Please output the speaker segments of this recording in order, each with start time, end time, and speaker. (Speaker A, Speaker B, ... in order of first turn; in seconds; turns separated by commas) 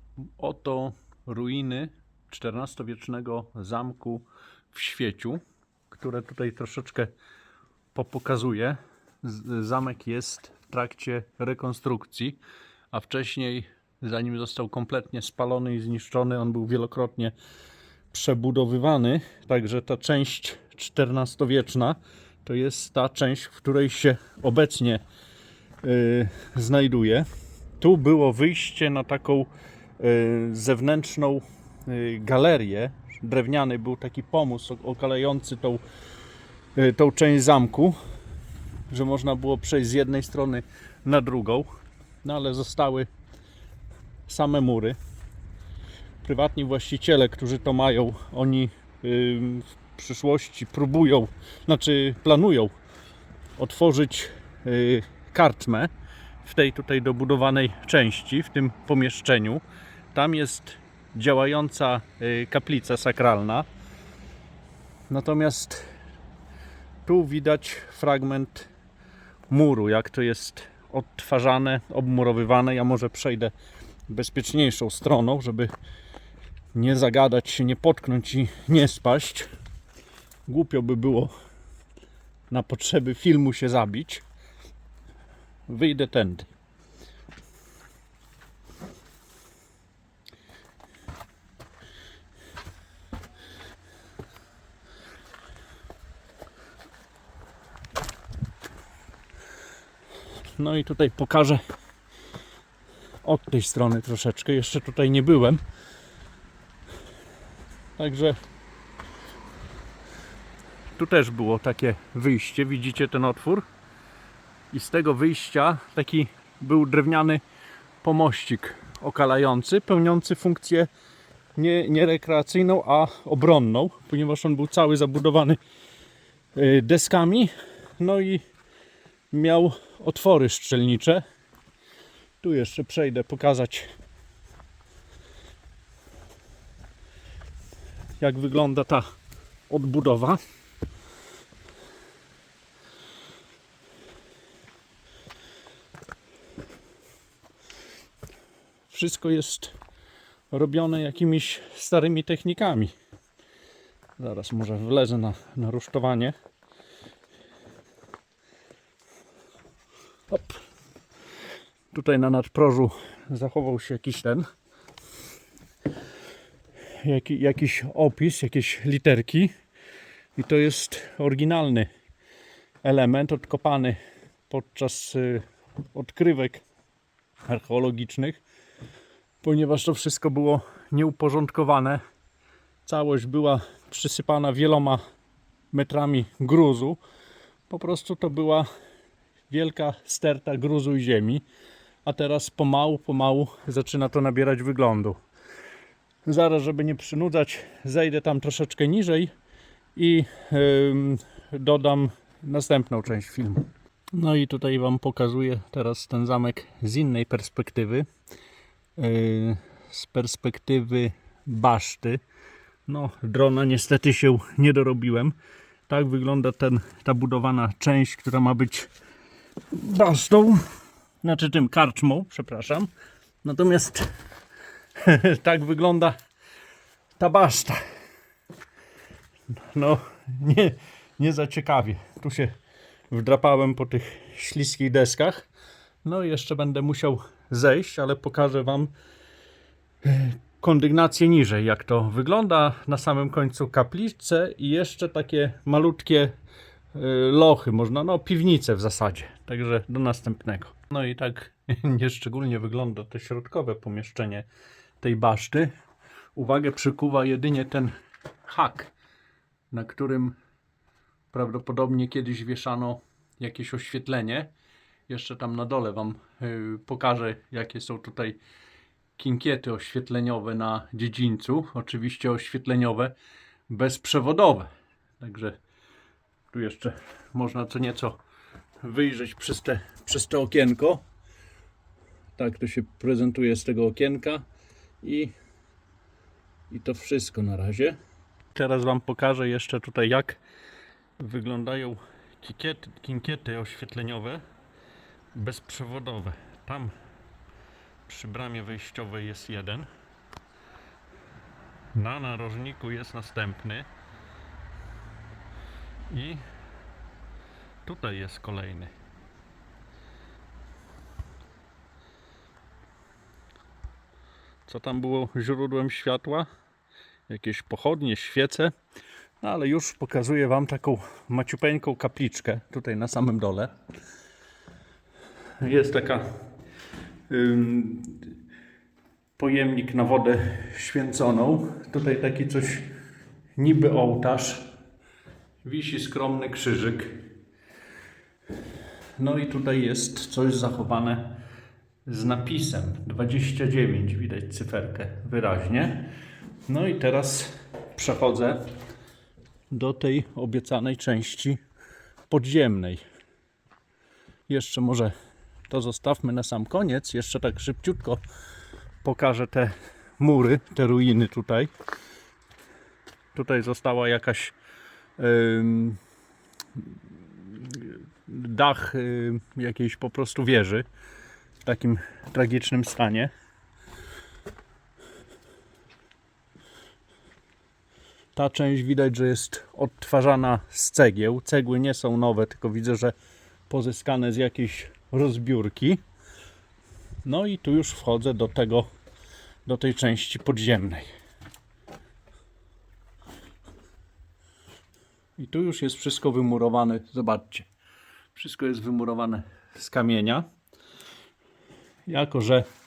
Speaker A: 0.4-7.1, Speaker A: 8.0-12.4, Speaker A: 12.9-17.3, Speaker A: 18.1-25.0, Speaker A: 25.8-27.3, Speaker A: 27.8-35.8, Speaker A: 36.8-38.0, Speaker A: 38.9-41.7, Speaker A: 42.2-43.1, Speaker A: 44.3-45.0, Speaker A: 46.2-52.7, Speaker A: 53.6-55.9, Speaker A: 56.4-63.7, Speaker A: 65.1-65.9, Speaker A: 67.1-68.7, Speaker A: 69.5-73.5, Speaker A: 74.1-75.7, Speaker A: 76.7-79.5, Speaker A: 80.5-81.3, Speaker A: 82.5-84.2, Speaker A: 85.7-86.5, Speaker A: 100.6-101.6, Speaker A: 103.2-105.6, Speaker A: 108.0-108.4, Speaker A: 111.0-113.7, Speaker A: 114.7-117.4, Speaker A: 118.0-120.9, Speaker A: 121.6-125.6, Speaker A: 126.5-128.4, Speaker A: 129.3-131.2, Speaker A: 132.4-133.9, Speaker A: 138.2-139.1, Speaker A: 139.7-140.4, Speaker A: 148.9-149.7, Speaker A: 150.5-152.9, Speaker A: 154.2-156.3, Speaker A: 160.3-160.6, Speaker A: 161.9-164.5, Speaker A: 167.0-169.5, Speaker A: 170.4-171.9, Speaker A: 172.8-174.0, Speaker A: 174.5-176.6, Speaker A: 177.5-178.4, Speaker A: 179.4-182.0, Speaker A: 182.9-185.0, Speaker A: 185.7-187.0, Speaker A: 187.7-188.7, Speaker A: 189.5-191.4, Speaker A: 192.1-195.2, Speaker A: 196.2-199.3, Speaker A: 200.0-208.1, Speaker A: 209.0-212.2, Speaker A: 212.9-215.3, Speaker A: 215.9-218.9, Speaker A: 219.7-220.7, Speaker A: 221.2-222.9, Speaker A: 223.4-224.1, Speaker A: 225.0-226.2, Speaker A: 227.2-227.8, Speaker A: 229.6-232.5, Speaker A: 233.1-235.5, Speaker A: 236.0-238.9, Speaker A: 240.0-246.3, Speaker A: 246.9-254.5, Speaker A: 255.0-255.7, Speaker A: 256.4-257.9, Speaker A: 258.4-258.9, Speaker A: 259.7-260.4, Speaker A: 261.3-264.5, Speaker A: 265.1-268.4, Speaker A: 269.2-273.1, Speaker A: 273.7-275.6, Speaker A: 276.5-278.2, Speaker A: 278.8-281.0, Speaker A: 282.4-284.4, Speaker A: 285.0-285.3, Speaker A: 286.7-288.0, Speaker A: 288.5-290.4, Speaker A: 291.2-294.4, Speaker A: 295.3-296.9, Speaker A: 298.1-299.9, Speaker A: 301.9-303.9, Speaker A: 306.1-306.4, Speaker A: 307.9-308.9, Speaker A: 314.7-316.5, Speaker A: 317.3-318.7, Speaker A: 319.4-323.7, Speaker A: 325.6-326.3, Speaker A: 327.3-328.3, Speaker A: 329.4-332.9, Speaker A: 333.6-334.6, Speaker A: 335.6-337.2, Speaker A: 339.2-341.3, Speaker A: 342.1-346.1, Speaker A: 346.7-348.7, Speaker A: 349.7-351.6, Speaker A: 352.3-353.0, Speaker A: 354.5-355.1, Speaker A: 355.7-358.2, Speaker A: 359.0-361.7, Speaker A: 363.3-364.6, Speaker A: 365.2-366.0, Speaker A: 367.4-370.9, Speaker A: 371.6-373.3, Speaker A: 378.4-383.1, Speaker A: 383.7-386.0, Speaker A: 387.2-388.9, Speaker A: 389.7-391.1, Speaker A: 395.4-397.7, Speaker A: 398.4-400.5, Speaker A: 402.1-402.7